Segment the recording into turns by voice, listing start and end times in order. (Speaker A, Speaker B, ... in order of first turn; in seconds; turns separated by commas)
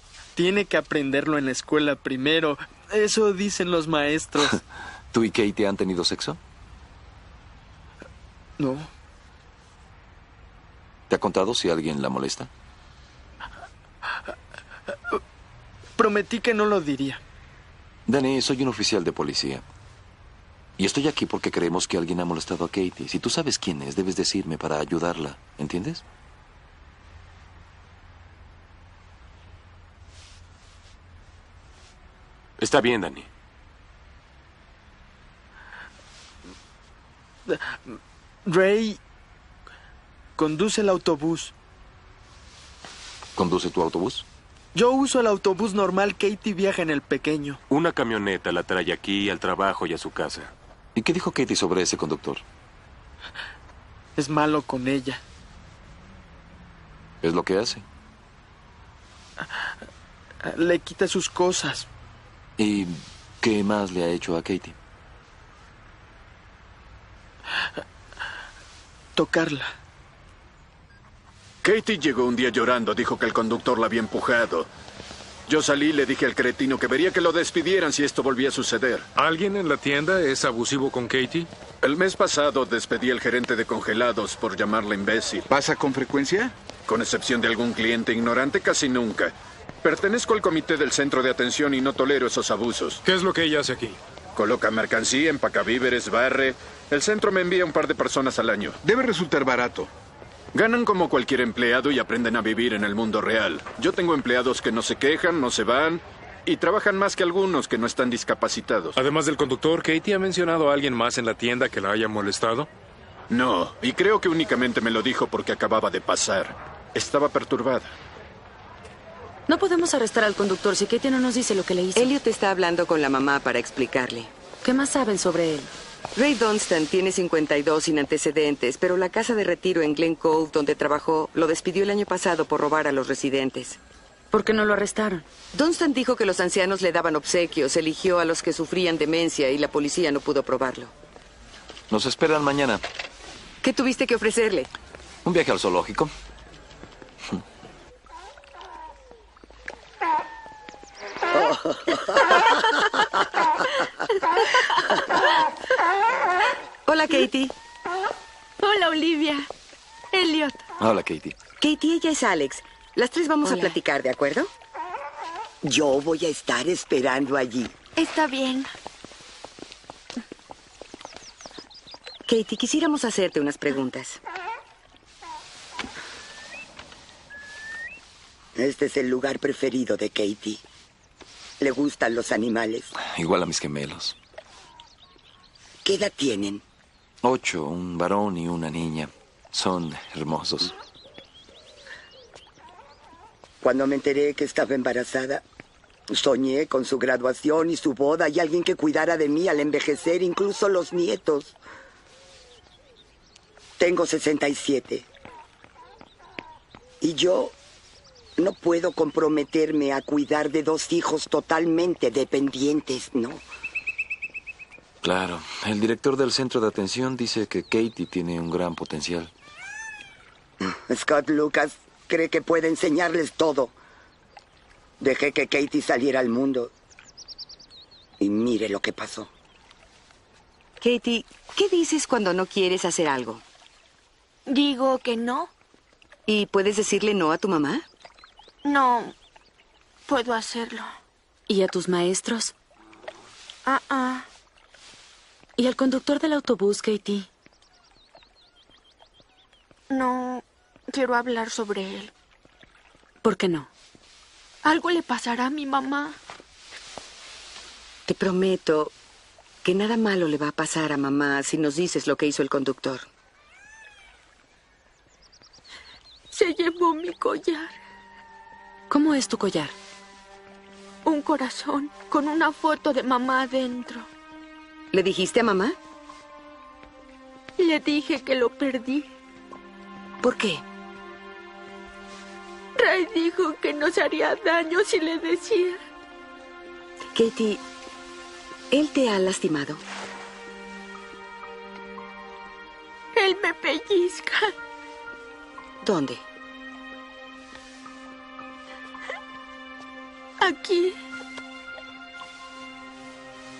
Speaker A: 0.4-4.6, Speaker B: 5.1-6.4, Speaker A: 8.6-8.9, Speaker B: 11.1-12.5, Speaker A: 16.0-17.2, Speaker B: 18.1-19.6, Speaker B: 20.8-26.0, Speaker C: 32.6-33.3, Speaker A: 37.5-39.0, Speaker A: 40.4-41.5, Speaker B: 43.4-44.2, Speaker A: 44.8-47.6, Speaker C: 47.7-50.5, Speaker B: 51.0-52.4, Speaker A: 54.2-55.2, Speaker B: 57.2-57.8, Speaker A: 60.4-61.9, Speaker B: 62.6-64.8, Speaker A: 69.2-69.7, Speaker D: 71.6-74.7, Speaker D: 75.5-79.1, Speaker E: 79.2-81.5, Speaker D: 81.8-85.5, Speaker F: 85.5-86.5, Speaker D: 86.9-93.0, Speaker E: 93.0-94.0, Speaker D: 94.4-98.8, Speaker F: 98.8-99.9, Speaker D: 100.5-109.0, Speaker E: 109.0-112.7, Speaker D: 113.3-117.9, Speaker G: 119.5-122.1, Speaker H: 122.0-124.3, Speaker G: 124.6-125.7, Speaker H: 126.2-133.8, Speaker G: 134.3-135.3, Speaker H: 135.5-140.9, Speaker B: 141.9-142.8, Speaker H: 143.6-144.7, Speaker B: 145.2-146.1, Speaker I: 151.3-152.6, Speaker J: 154.4-155.4, Speaker H: 156.9-157.5, Speaker J: 158.6-159.5, Speaker J: 160.1-160.6, Speaker B: 160.8-161.4, Speaker H: 161.6-164.5, Speaker I: 165.6-167.8, Speaker J: 168.0-168.7, Speaker H: 172.3-174.2, Speaker I: 178.6-180.6, Speaker I: 181.6-182.9, Speaker B: 183.0-184.2, Speaker I: 185.8-186.6, Speaker B: 187.2-190.7, Speaker I: 193.6-195.4, Speaker I: 196.1-201.6, Speaker I: 203.8-205.1, Speaker I: 207.0-207.6, Speaker I: 208.4-213.4, Speaker B: 215.0-219.3, Speaker I: 220.6-223.7, Speaker I: 225.0-226.7, Speaker I: 228.2-229.3, Speaker H: 230.8-233.4, Speaker J: 234.5-235.5, Speaker H: 236.3-237.9, Speaker J: 238.6-239.2, Speaker J: 240.1-240.9, Speaker G: 241.5-242.5, Speaker J: 243.7-244.3, Speaker G: 245.6-247.3, Speaker J: 249.9-252.1, Speaker G: 253.2-253.7, Speaker J: 254.6-256.2, Speaker H: 258.1-258.9, Speaker H: 259.6-263.1, Speaker J: 266.3-267.8, Speaker G: 268.9-269.8, Speaker J: 271.1-274.1, Speaker H: 274.9-275.8, Speaker J: 277.6-279.1, Speaker H: 280.2-280.6, Speaker J: 282.8-285.8, Speaker H: 287.1-287.6, Speaker H: 288.7-289.8, Speaker J: 293.1-294.5, Speaker H: 295.8-296.2, Speaker J: 300.4-301.0